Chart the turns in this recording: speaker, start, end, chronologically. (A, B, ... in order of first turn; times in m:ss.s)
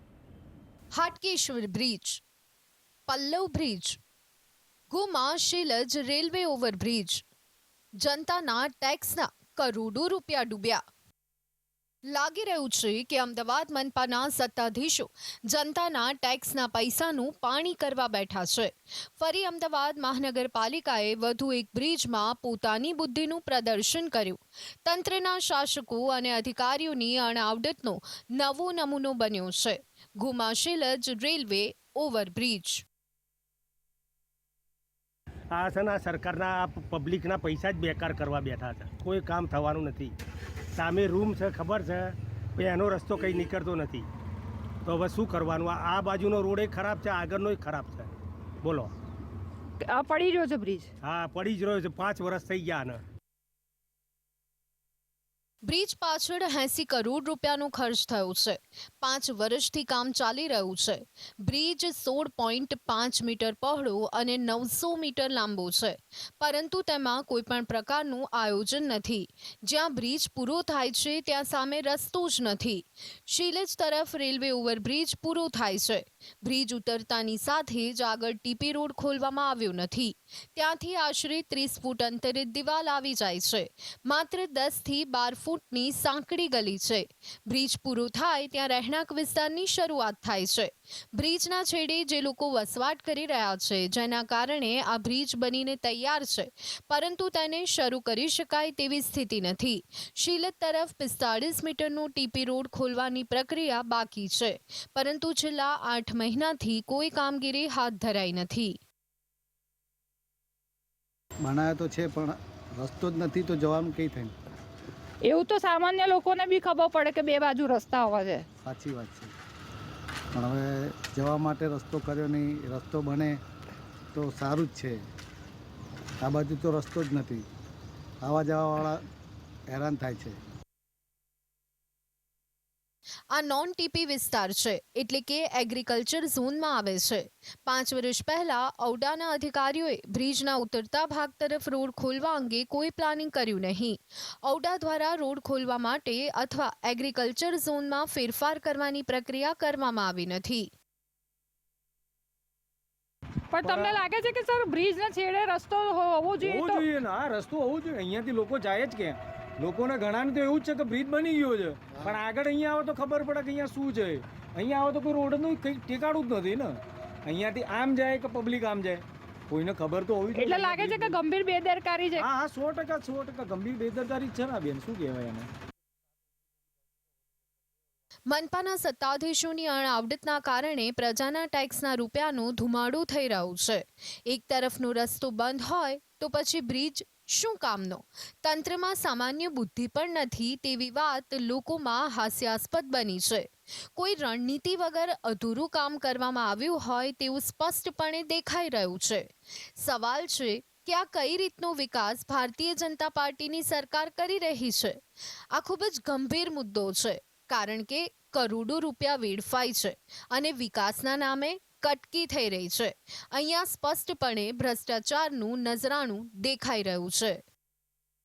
0:00.9-0:02.2 A
0:03.1-0:04.0 A
0:04.9-0:07.2 A
0:08.0-0:10.8 A
0:12.0-0:32.8 A
0:35.5-0:40.1 B
0:40.8-0:44.1 B
0:44.8-0:48.1 B
0:48.6-0:48.9 B
0:49.8-0:50.9 C
0:51.0-0:53.0 B
0:55.6-1:48.8 A
1:51.4-1:54.3 D
1:55.2-1:58.4 C
1:58.6-1:59.3 D
2:00.3-2:03.4 D
2:04.1-2:05.0 D
2:06.2-2:07.4 D
2:08.2-2:09.0 D
2:09.7-2:10.4 D
2:13.3-2:30.7 A
2:33.5-2:36.8 C
2:33.6-2:34.0 E
2:36.4-2:51.2 E
2:50.3-2:52.3 C
2:52.2-2:55.5 E
2:58.3-3:25.0 A
3:25.5-3:37.4 A